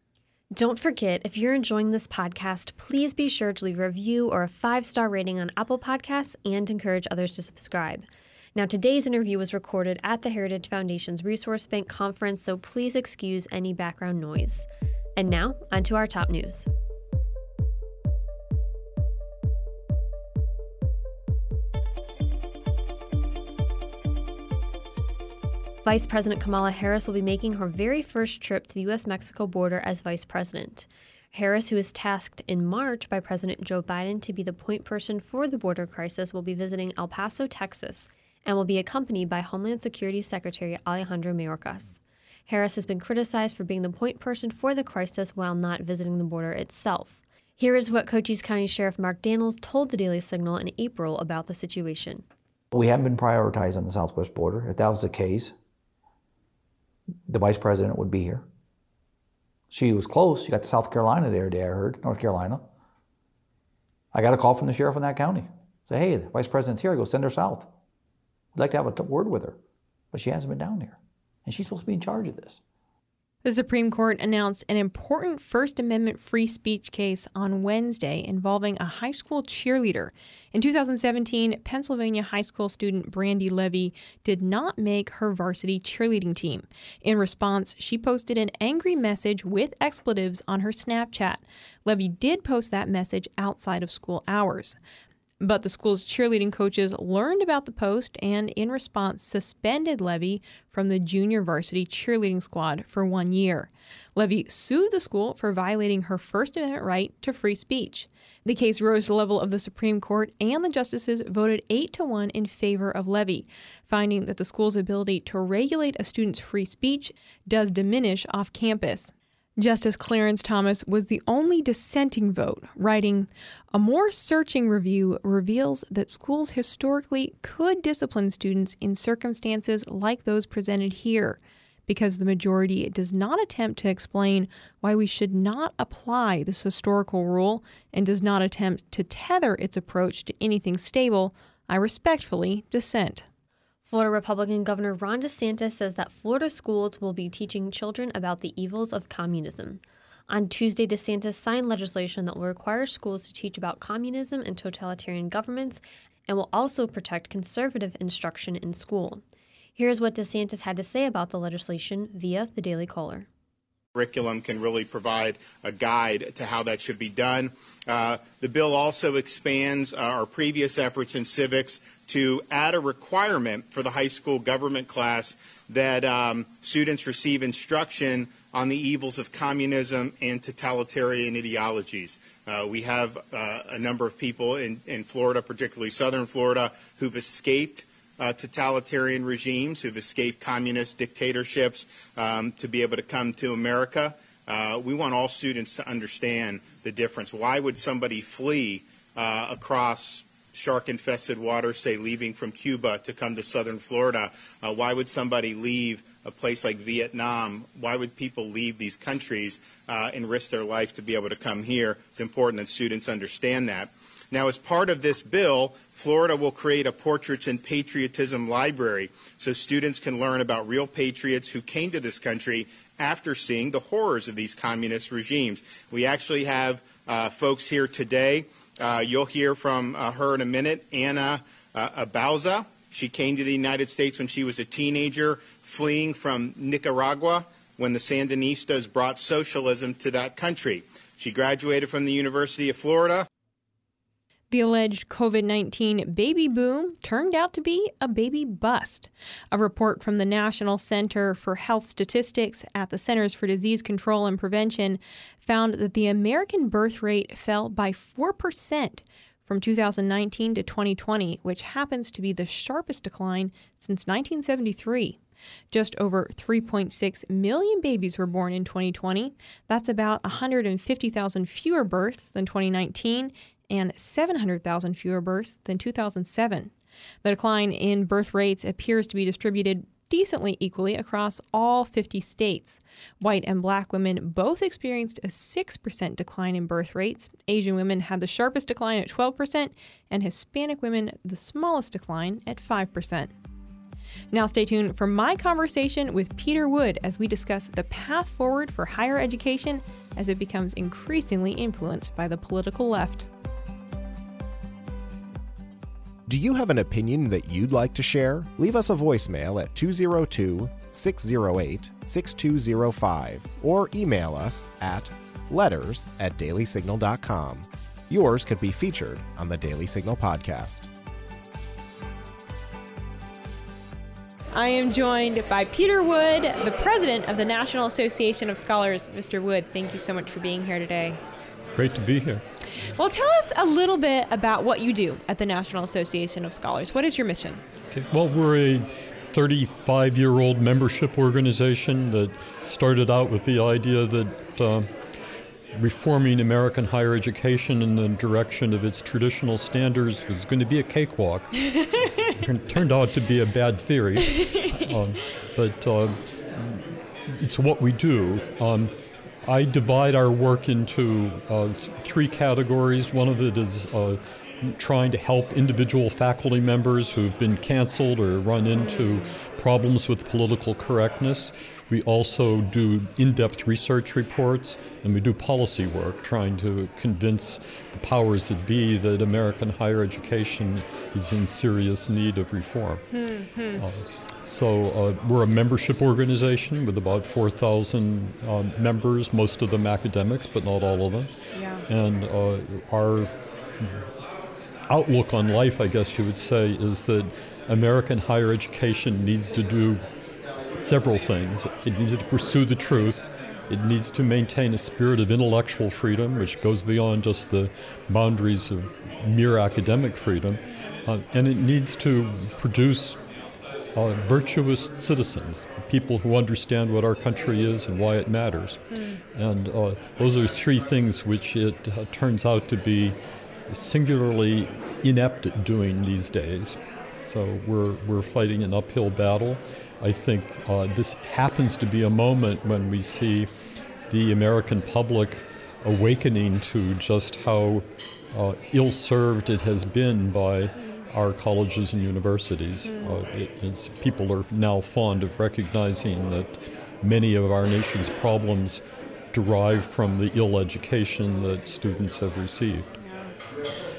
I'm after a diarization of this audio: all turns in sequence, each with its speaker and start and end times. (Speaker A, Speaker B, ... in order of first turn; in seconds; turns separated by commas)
Speaker A: 0.5-16.7, Speaker A: 25.8-52.2, Speaker B: 52.7-55.5, Speaker B: 57.3-58.4, Speaker B: 59.7-62.6, Speaker B: 64.1-67.7, Speaker B: 68.5-69.6, Speaker B: 70.1-72.6, Speaker C: 73.4-94.8, Speaker C: 95.4-143.2, Speaker A: 143.8-159.2, Speaker A: 159.8-163.3, Speaker D: 163.9-243.3, Speaker C: 244.5-265.2, Speaker C: 265.7-276.7, Speaker C: 277.2-293.3, Speaker C: 294.3-303.3, Speaker E: 306.3-320.9, Speaker C: 324.5-331.2, Speaker F: 331.7-332.4, Speaker C: 332.8-337.6, Speaker F: 337.9-344.9, Speaker F: 345.7-383.0, Speaker C: 368.9-369.2, Speaker C: 383.1-383.8, Speaker F: 383.7-391.3, Speaker C: 391.5-391.8, Speaker F: 391.9-394.0, Speaker F: 394.9-400.0, Speaker F: 400.7-413.2, Speaker F: 413.9-433.5, Speaker C: 418.9-419.2, Speaker F: 434.1-452.9, Speaker C: 442.8-443.2, Speaker C: 453.0-453.3